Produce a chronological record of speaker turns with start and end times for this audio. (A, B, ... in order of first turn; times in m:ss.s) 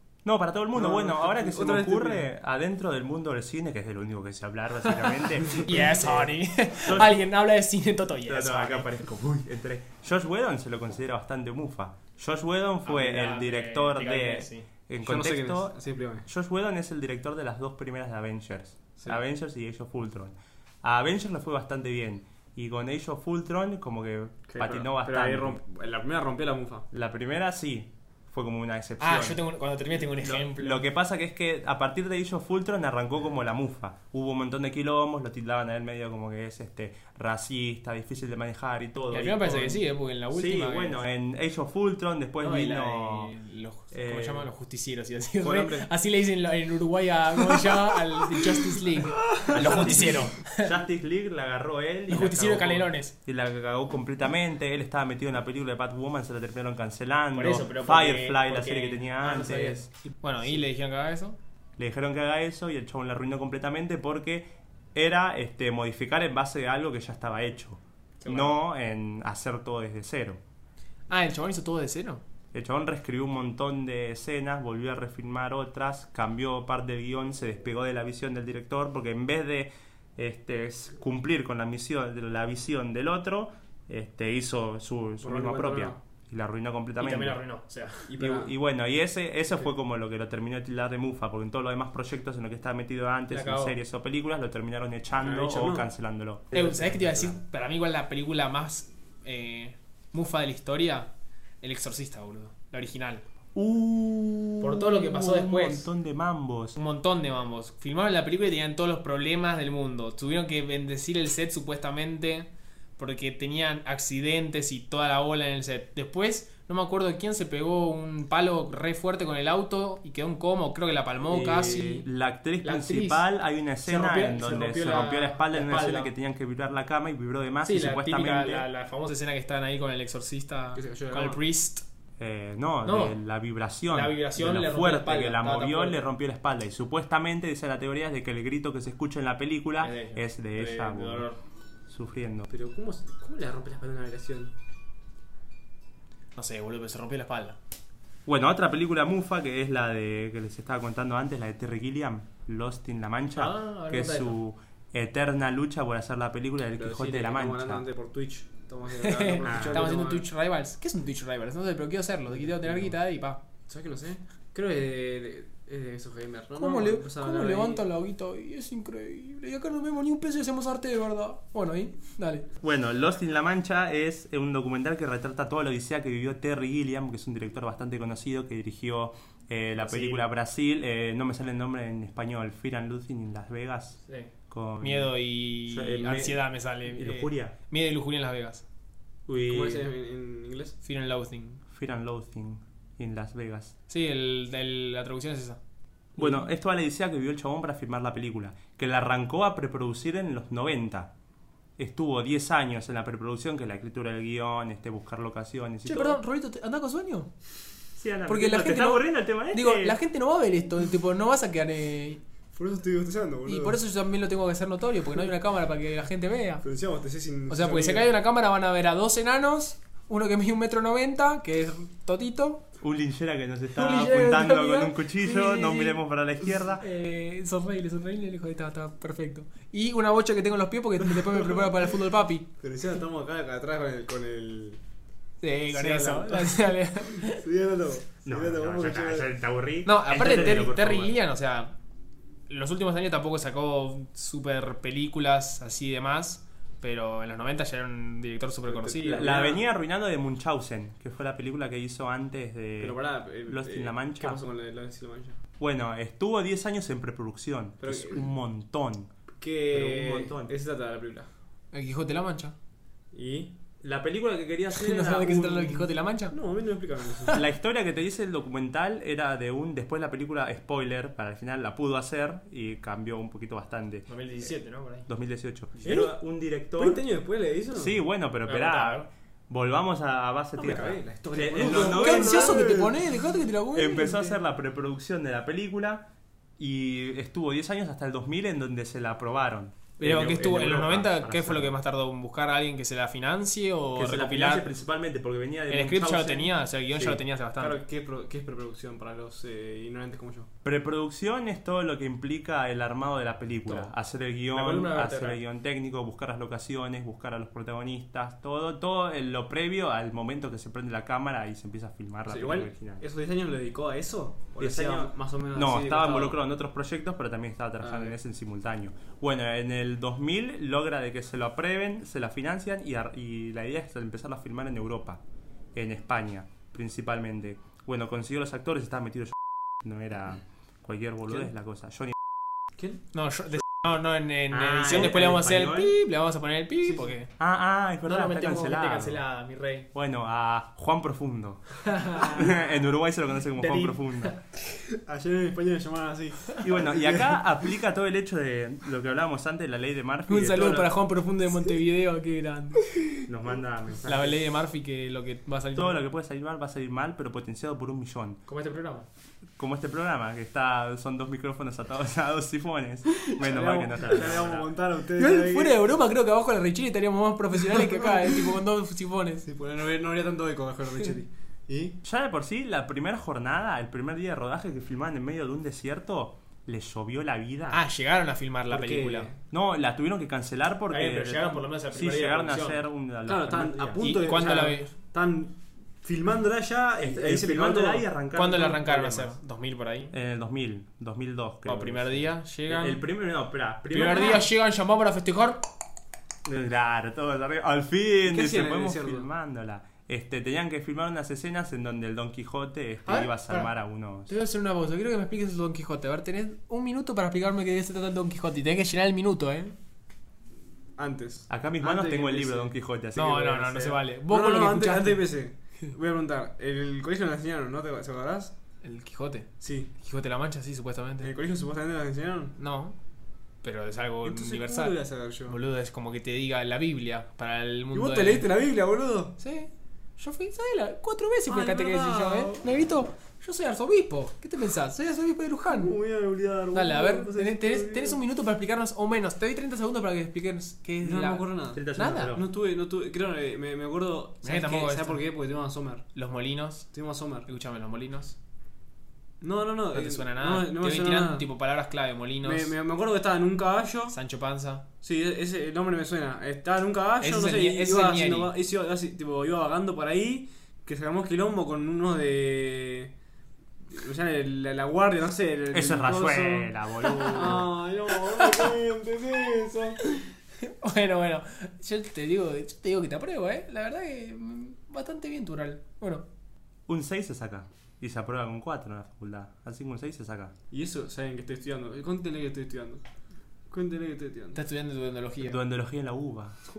0:00.2-0:06.3 A
0:00.7-0:02.3 B
0:04.8-0:09.0 C
0:06.8-0:07.3 A
0:08.3-0:15.8 A
0:12.8-0:14.7 C
0:15.0-0:16.3 B
0:16.2-0:25.6 A
0:24.5-0:26.9 B
0:26.9-0:29.4 A
0:29.0-0:30.8 C
0:29.9-0:43.3 A
0:39.1-0:41.0 C
0:42.4-0:50.7 C
0:43.9-0:44.5 A
0:45.4-0:45.9 B
0:49.2-0:50.2 B
0:49.4-0:59.9 A
0:52.1-0:53.1 C
0:57.3-1:01.4 C
1:01.8-1:10.4 A
1:08.2-1:08.6 C
1:11.1-1:12.2 C
1:12.5-1:27.4 A
1:25.2-1:26.0 B
1:27.0-1:28.1 C
1:28.1-1:28.5 B
1:28.2-1:37.4 A
1:33.3-1:33.8 C
1:35.1-1:35.9 B
1:36.5-1:41.1 C
1:41.6-1:43.2 C
1:43.6-1:46.8 A
1:44.6-1:45.9 C
1:46.8-2:02.1 C
2:01.3-2:08.7 A
2:02.6-2:03.2 C
2:03.8-2:06.1 C
2:07.6-2:11.8 C
2:10.8-2:11.4 B
2:12.2-2:21.3 A
2:12.8-2:13.2 C
2:13.9-2:16.0 C
2:19.8-2:21.4 C
2:21.9-2:22.5 A
2:22.5-2:24.5 B
2:26.4-2:27.6 C
2:28.2-2:37.8 A
2:33.3-2:34.4 C
2:36.7-2:40.3 B
2:39.0-2:43.4 C
2:39.4-2:39.9 A
2:42.6-2:42.9 B
2:43.7-2:47.8 B
2:46.6-2:52.5 C
2:52.6-3:05.1 A
2:59.9-3:00.2 C
3:04.1-3:08.6 C
3:05.7-3:07.6 A
3:09.3-3:09.9 A
3:09.5-3:10.8 B
3:10.8-3:11.6 C
3:11.7-3:13.8 A
3:13.9-3:15.6 C
3:16.2-3:21.1 A
3:21.8-3:26.2 A
3:25.8-3:27.3 C
3:28.0-3:30.0 A
3:28.3-3:32.2 C
3:32.5-3:33.8 B
3:33.5-3:36.6 C
3:36.6-3:38.1 B
3:37.5-3:42.6 C
3:42.8-3:46.8 A
3:43.7-3:46.0 C
3:46.8-3:52.5 C
3:51.2-3:51.6 B
3:52.6-3:54.8 B
3:55.4-3:57.4 C
3:55.7-3:59.3 B
3:58.2-4:01.2 A
3:59.8-4:01.8 C
4:02.5-4:09.4 C
4:08.7-4:09.6 B
4:09.0-4:14.4 A
4:12.8-4:15.4 B
4:15.6-4:19.1 A
4:17.8-4:18.3 B
4:19.4-4:21.3 B
4:19.7-4:20.5 A
4:21.7-4:22.6 C
4:23.1-4:23.6 B
4:23.8-4:25.9 A
4:24.7-4:26.4 C
4:26.3-4:27.4 B
4:27.3-4:34.5 A
4:34.1-4:35.1 C
4:35.1-4:37.0 A
4:35.8-4:36.1 B
4:36.7-4:38.0 B
4:37.7-4:42.8 A
4:38.4-4:39.1 C
4:40.6-4:42.9 B
4:41.6-4:44.4 C
4:43.7-4:51.7 A
4:50.0-4:54.7 C
4:54.0-4:57.2 A
4:55.7-4:57.8 C
4:57.6-5:00.5 B
5:00.6-5:13.0 A
5:04.6-5:05.4 C
5:12.3-5:16.4 B
5:14.6-5:25.2 A
5:17.8-5:18.2 B
5:25.7-5:32.1 A
5:33.1-5:37.3 C
5:34.5-5:35.9 A
5:36.8-5:37.1 B
5:37.4-5:39.2 A
5:38.0-5:39.9 C
5:39.9-5:44.4 A
5:41.8-5:42.6 C
5:43.6-5:44.4 C
5:44.9-5:47.4 B
5:46.6-5:50.9 A
5:50.3-5:52.9 C
5:53.2-5:54.4 A
5:54.0-5:56.0 C
5:55.7-5:58.4 A
5:58.5-5:59.1 C
5:59.6-6:04.7 A
6:03.3-6:05.8 B
6:05.2-6:09.5 C
6:09.4-6:12.0 B
6:12.0-6:17.8 A
6:17.7-6:19.3 C
6:18.7-6:19.4 B
6:19.5-6:24.1 A
6:20.9-6:22.8 C
6:23.3-6:28.1 B
6:24.0-6:24.9 C
6:27.0-6:29.4 A
6:28.4-6:30.1 C
6:30.1-6:34.5 A
6:31.7-6:33.0 C
6:33.9-6:35.7 C
6:36.4-6:44.3 A
6:38.2-6:39.3 B
6:43.1-6:43.7 C
6:44.3-6:49.8 C
6:51.0-6:52.7 B
6:51.5-6:54.0 A
6:53.1-6:55.2 C
6:54.2-6:58.6 B
6:58.8-7:01.3 C
6:59.6-6:59.9 B
7:01.2-7:02.6 B
7:02.6-7:03.0 C
7:03.6-7:05.0 C
7:04.2-7:05.6 B
7:05.5-7:08.5 C
7:07.9-7:09.4 B
7:09.4-7:15.9 C
7:11.5-7:12.7 B
7:15.7-7:18.2 B
7:16.7-7:22.4 C
7:21.0-7:26.1 B
7:21.7-7:22.5 A
7:24.4-7:25.2 C
7:26.1-7:26.9 C
7:26.9-7:27.5 B
7:27.5-7:28.4 C
7:29.4-7:31.5 B
7:29.9-7:32.7 C
7:32.4-7:34.2 B
7:34.1-7:34.8 C
7:35.0-7:43.1 B
7:37.2-7:38.5 C
7:43.9-7:50.1 B
7:45.7-7:47.7 A
7:47.0-7:47.7 C
7:48.3-7:48.7 C
7:50.1-7:56.2 C
7:56.9-8:00.5 A
8:00.7-8:03.0 B
8:03.7-8:04.6 B
8:04.5-8:05.6 C
8:05.4-8:06.6 A